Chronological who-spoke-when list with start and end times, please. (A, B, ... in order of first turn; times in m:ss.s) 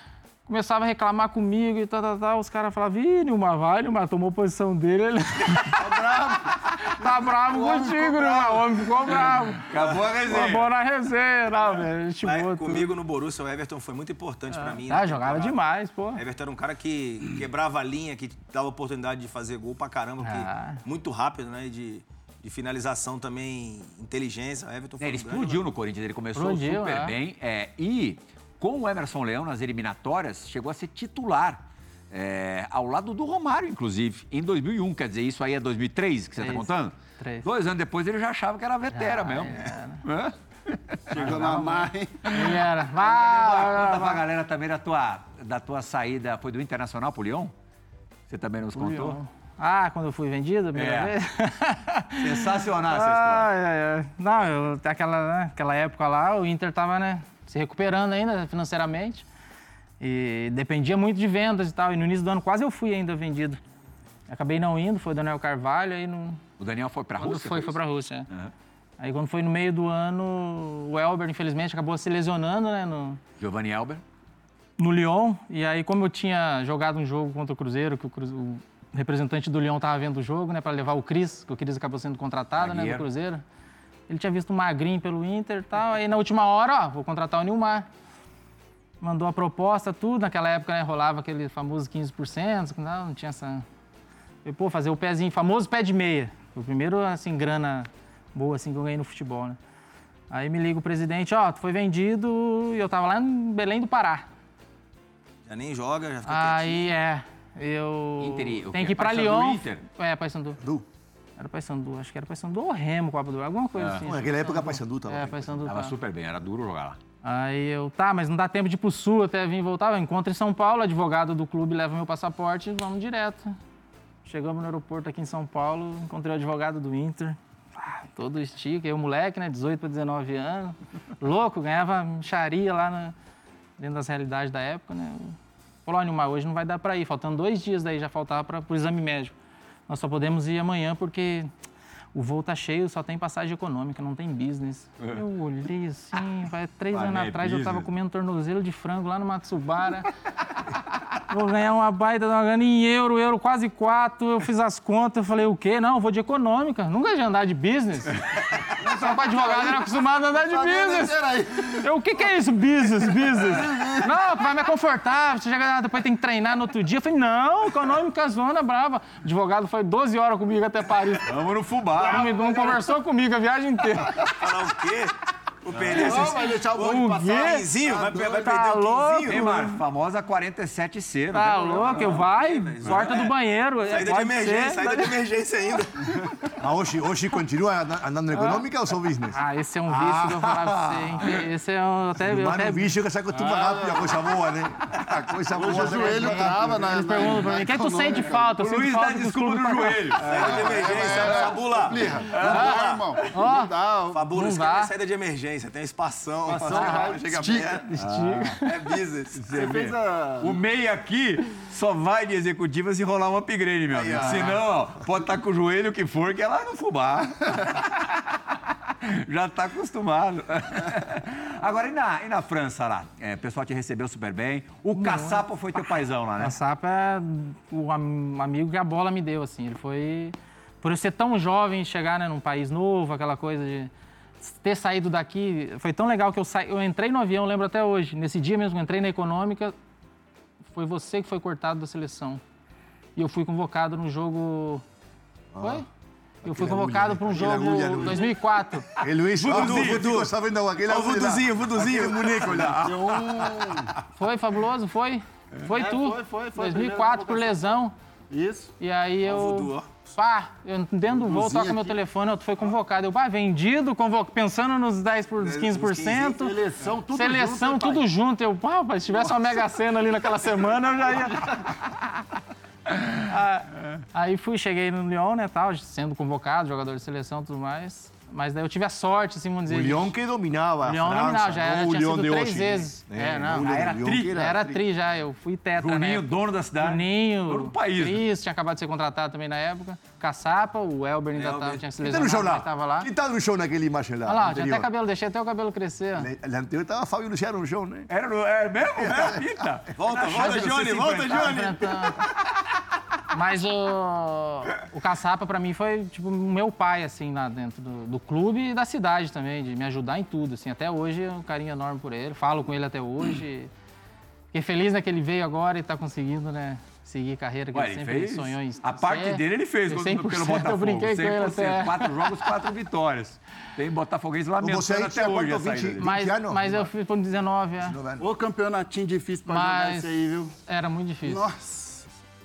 0:00.5-0:05.8 A
0:05.8-0:06.4 B
0:06.8-0:09.7 A
0:07.9-0:08.4 C
0:09.0-0:10.7 C
0:09.7-0:10.4 B
0:10.2-0:12.9 A
0:12.2-0:15.6 B
0:14.5-0:16.2 A
0:16.1-0:25.6 B
0:20.2-0:20.8 A
0:25.0-0:41.6 C
0:26.4-0:27.1 A
0:36.4-0:37.5 A
0:38.9-0:40.0 A
0:41.1-0:42.4 D
0:41.1-0:44.2 A
0:42.3-0:47.5 C
0:48.3-0:49.2 C
0:48.7-0:59.2 A
0:50.7-0:51.1 C
0:52.2-0:53.5 C
1:00.0-1:03.6 A
1:04.3-1:06.4 A
1:06.6-1:07.8 C
1:07.2-1:08.3 A
1:09.0-1:13.2 A
1:13.4-1:14.0 C
1:14.8-1:23.4 A
1:22.6-1:23.0 C
1:24.1-1:27.9 A
1:29.0-1:33.6 A
1:34.4-1:39.6 A
1:40.3-1:44.3 A
1:45.4-1:46.9 B
1:46.2-1:50.6 A
1:48.2-1:49.8 C
1:50.6-1:50.8 E
1:51.4-1:56.0 A
1:53.8-1:54.0 C
1:54.0-1:55.6 E
1:55.6-1:57.0 C
1:57.2-2:03.6 A
2:04.2-2:13.1 A
2:13.8-2:19.3 A
2:19.9-2:21.5 A
2:22.1-2:30.1 A
2:26.9-2:27.9 C
2:31.3-2:51.3 A
2:38.8-2:41.8 D
2:43.4-2:44.1 D
2:51.2-2:52.4 C
2:52.0-2:54.3 A
2:52.1-2:52.8 D
2:54.2-2:59.5 B
2:55.8-2:58.3 D
2:55.9-2:56.4 C
2:56.2-2:59.8 A
2:59.2-3:02.2 C
3:01.3-3:05.1 A
3:01.6-3:06.4 B
3:02.8-3:03.3 C
3:06.6-3:11.3 E
3:08.3-3:08.6 A
3:09.3-3:12.9 A
3:12.2-3:16.8 E
3:13.3-3:14.3 D
3:15.5-3:18.5 D
3:15.6-3:20.2 A
3:18.5-3:21.4 C
3:20.2-3:23.0 B
3:20.2-3:24.2 D
3:22.1-3:23.2 C
3:22.4-3:22.8 A
3:23.3-3:23.7 A
3:24.1-3:27.8 B
3:24.3-3:24.9 A
3:26.5-3:27.9 D
3:26.7-3:27.2 A
3:27.8-3:28.7 A
3:28.0-3:28.7 C
3:28.6-3:29.4 B
3:29.4-3:46.6 C
3:29.5-3:30.6 D
3:33.9-3:34.5 B
3:34.2-3:34.6 A
3:44.9-3:53.9 A
3:54.4-3:59.7 A
4:00.7-4:02.4 A
4:03.2-4:04.8 A
4:05.5-4:05.8 E
4:05.6-4:05.9 A
4:06.4-4:08.9 A
4:06.4-4:08.4 E
4:09.0-4:13.7 E
4:09.4-4:10.1 C
4:09.4-4:10.3 B
4:10.9-4:12.7 B
4:12.6-4:13.9 D
4:14.1-4:17.9 A
4:15.7-4:17.6 D
4:18.3-4:18.7 D
4:18.8-4:26.6 A
4:19.2-4:19.9 B
4:21.1-4:22.0 D
4:25.4-4:26.2 B
4:26.0-4:28.0 D
4:27.1-4:31.7 A
4:33.2-4:40.1 A
4:39.7-4:44.8 E
4:40.8-4:53.1 A
4:43.6-4:44.5 C
4:45.8-4:48.2 C
4:51.3-4:51.8 B
4:52.0-4:54.9 E
4:54.2-4:56.3 A
4:56.2-4:58.1 E
4:58.1-5:01.6 C
4:59.0-4:59.5 E
4:59.1-4:59.4 B
5:00.0-5:01.9 B
5:00.3-5:02.2 A
5:03.3-5:13.7 A
5:14.5-5:22.5 A
5:17.7-5:26.1 C
5:24.6-5:26.9 E
5:26.0-5:28.0 A
5:27.8-5:28.3 E
5:28.2-5:30.5 D
5:29.4-5:30.1 A
5:30.6-5:31.5 A
5:31.2-5:32.1 D